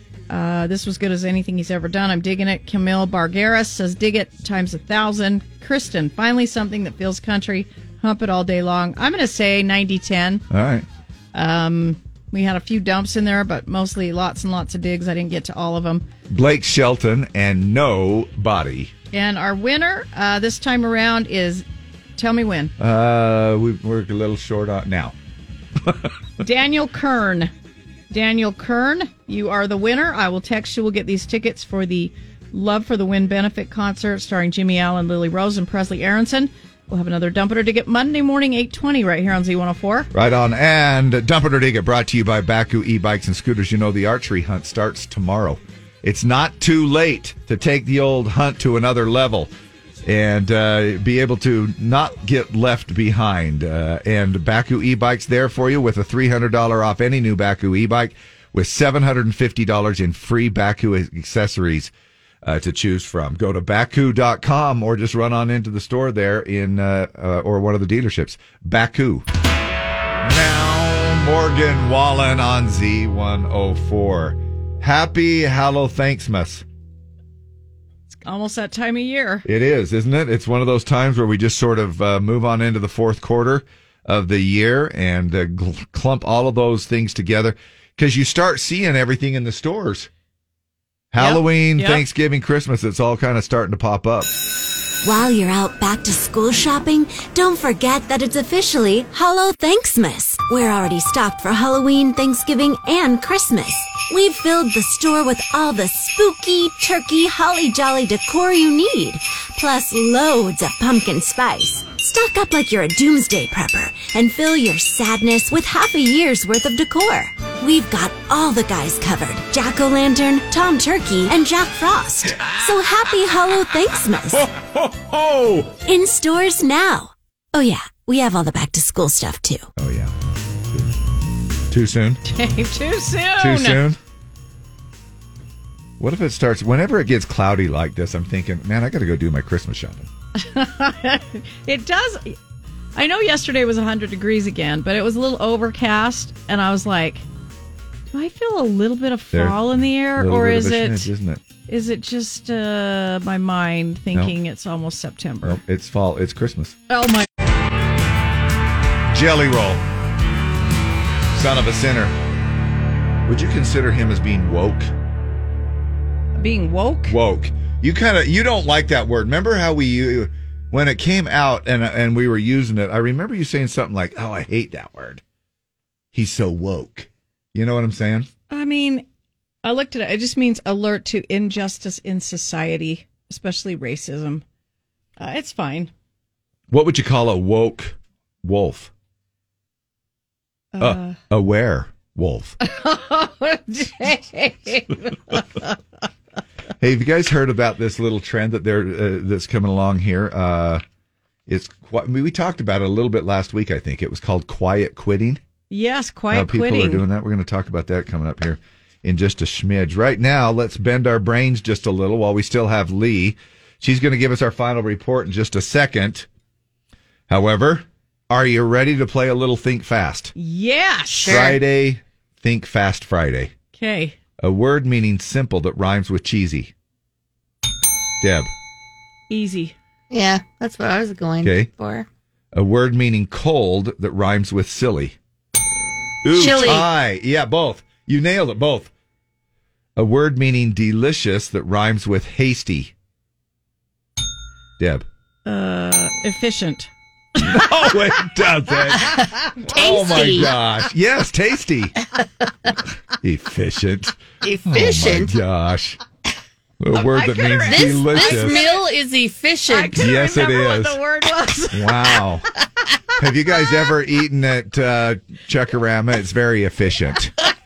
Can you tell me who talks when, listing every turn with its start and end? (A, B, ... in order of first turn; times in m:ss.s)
0:00.3-0:10.4 A
0:10.5-0:10.8 B
0:11.3-0:16.0 A
0:16.3-0:18.9 B
0:19.1-0:21.6 A
0:22.2-0:22.7 A
0:22.8-0:25.1 B
0:25.8-0:26.1 B
0:26.4-0:27.5 A
0:28.1-0:40.1 A
0:40.1-0:49.5 B
0:50.0-1:01.9 B
1:02.4-1:09.2 B
1:10.2-1:16.6 B
1:18.2-1:19.4 A
1:19.4-1:30.1 B
1:31.1-1:34.4 B
1:31.2-1:32.0 A
1:35.0-2:04.5 C
2:05.8-2:09.7 C
2:09.8-2:10.1 B
2:11.7-2:12.2 B
2:12.2-2:13.8 A
2:13.4-2:14.0 B
2:16.0-2:20.1 B
2:20.4-2:22.4 A
2:23.0-2:27.2 A
2:28.1-2:31.1 A
2:29.3-2:31.4 B
2:31.7-2:35.6 A
2:35.4-2:36.8 B
2:36.9-2:37.3 A
2:39.1-2:39.8 B
2:41.3-2:42.1 B
2:43.2-2:44.9 B
2:46.4-2:47.2 A
2:47.1-2:55.2 B
2:56.1-2:58.3 B
2:58.5-2:59.0 A
2:59.6-3:04.4 A
3:05.2-3:05.9 A
3:06.7-3:08.9 B
3:10.7-3:11.2 A
3:10.8-3:12.6 B
3:12.6-3:15.7 A
3:16.8-3:20.8 B
3:21.5-3:25.4 B
3:25.7-3:27.0 A
3:26.3-3:36.3 B
3:37.3-3:40.3 B
3:40.3-3:41.4 A
3:41.2-3:41.6 D
3:41.2-3:43.5 B
3:43.7-3:44.2 A
3:44.4-3:46.7 B
3:48.2-3:48.5 B
3:49.3-3:49.8 A
3:50.1-3:52.1 D
3:51.4-3:51.7 B
3:52.5-3:55.2 B
3:56.2-3:58.9 B
3:56.3-3:56.9 D
4:00.0-4:02.9 B
4:04.8-4:05.0 B
4:05.4-4:07.9 A
4:07.4-4:11.9 B
4:09.7-4:10.5 D
4:09.8-4:10.3 A
4:13.2-4:16.0 B
4:14.4-4:15.3 D
4:16.8-4:18.6 B
4:16.9-4:18.9 A
4:17.6-4:20.1 D
4:19.7-4:22.2 A
4:20.0-4:21.0 B
4:21.7-4:22.4 B
4:23.2-4:27.3 B